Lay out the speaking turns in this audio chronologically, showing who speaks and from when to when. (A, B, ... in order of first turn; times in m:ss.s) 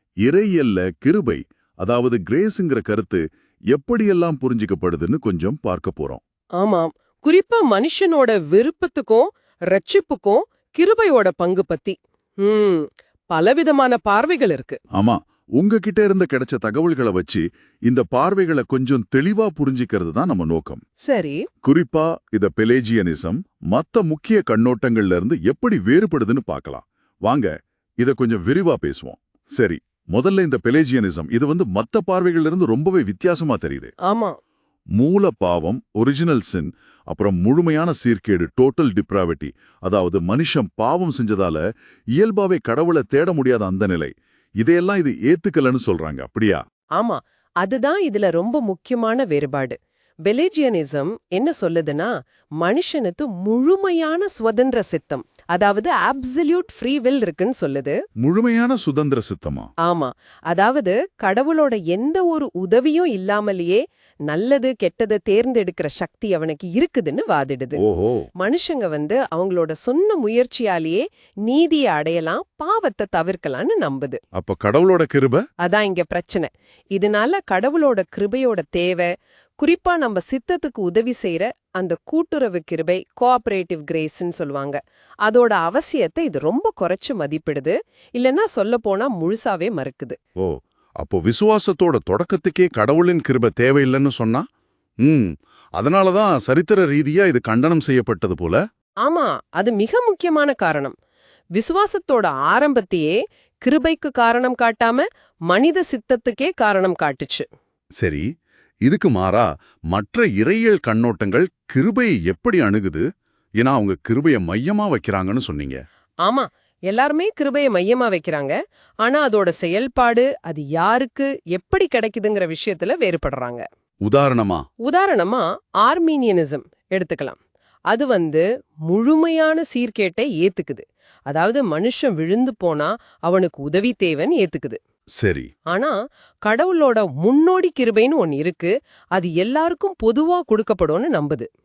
0:00.2-0:06.2 A
0:06.6-0:14.8 B
0:14.9-0:20.8 A
0:21.0-0:21.4 B
0:21.6-0:33.9 A
0:34.0-0:34.4 B
0:35.0-0:41.6 A
0:42.2-0:46.6 A
0:47.0-0:58.0 B
0:58.2-0:59.7 A
0:59.8-1:07.8 B
1:07.8-1:08.3 A
1:08.4-1:14.2 B
1:14.3-1:15.4 A
1:15.6-1:30.2 B
1:30.4-1:34.4 A
1:35.0-1:38.6 A
1:39.0-1:40.9 B
1:41.6-1:47.5 B
1:48.0-1:48.3 A
1:48.8-1:53.0 A
1:53.6-1:55.8 A
1:56.2-2:03.6 B
2:04.0-2:04.6 A
2:04.8-2:07.4 B
2:07.9-2:14.8 B
2:15.2-2:15.5 A
2:15.7-2:21.5 B